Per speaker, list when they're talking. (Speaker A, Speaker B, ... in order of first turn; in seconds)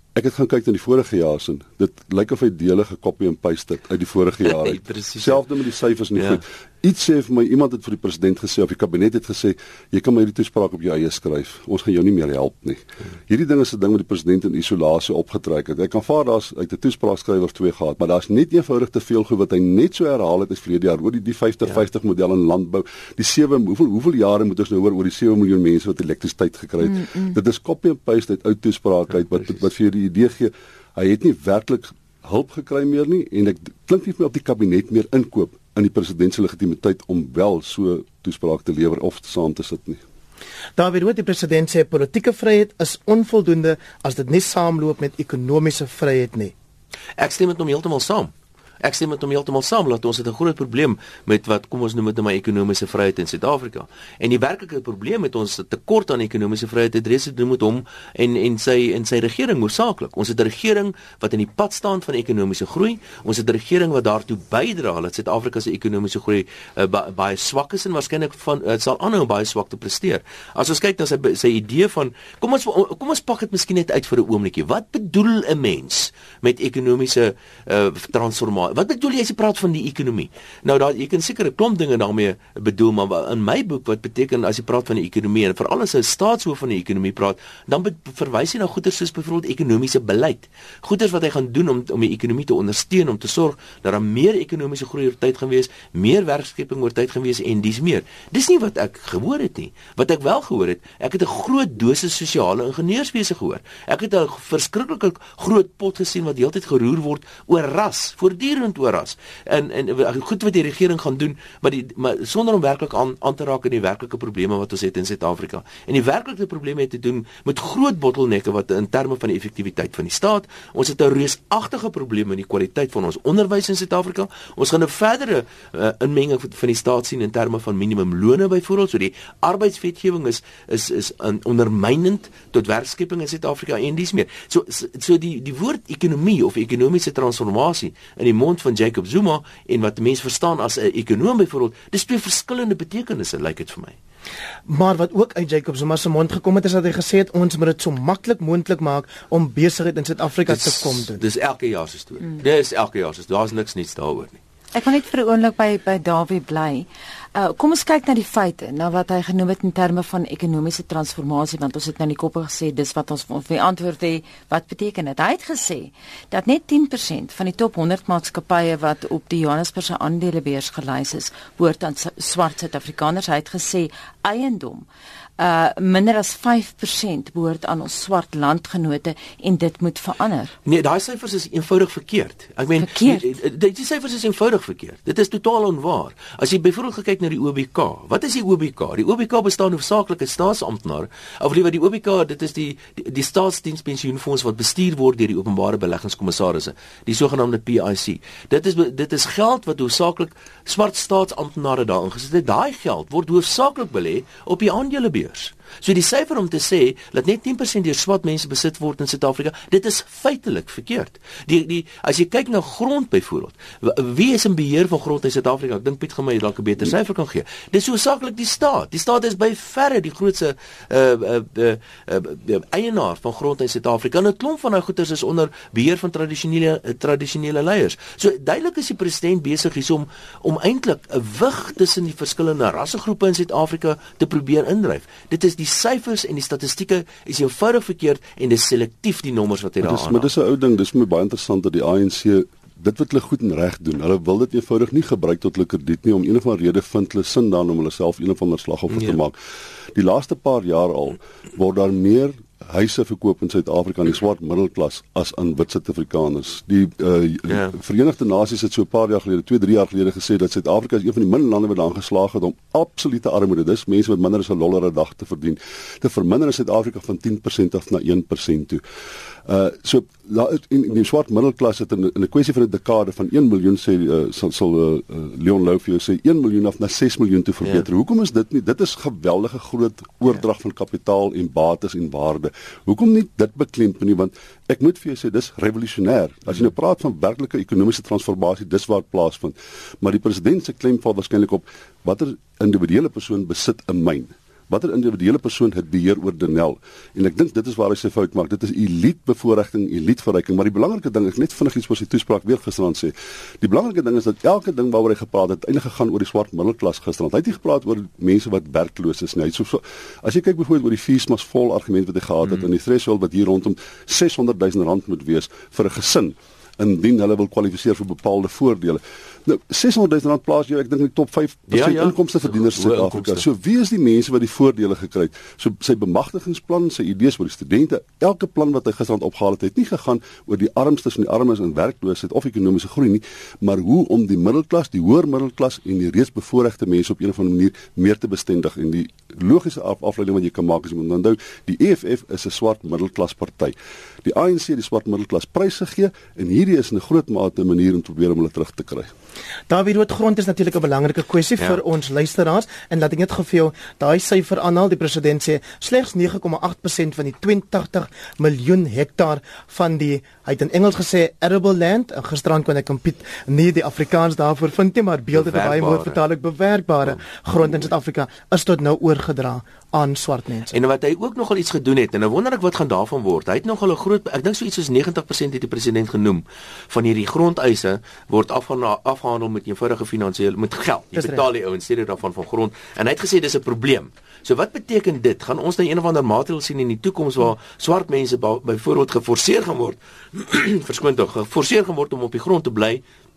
Speaker A: 0.1-40.0, 239.8-249.4, 249.9-268.8, 269.5-349.1
Speaker B: 4.4-5.5, 6.2-6.4, 47.2-144.0, 150.5-154.4, 180.7-240.3, 248.9-249.2, 321.7-323.5, 365.3-366.2, 370.7-393.0
Speaker C: 40.8-46.5, 144.7-151.2, 349.7-370.7, 381.2-381.4
Speaker D: 154.7-174.9, 175.4-180.5, 182.8-183.2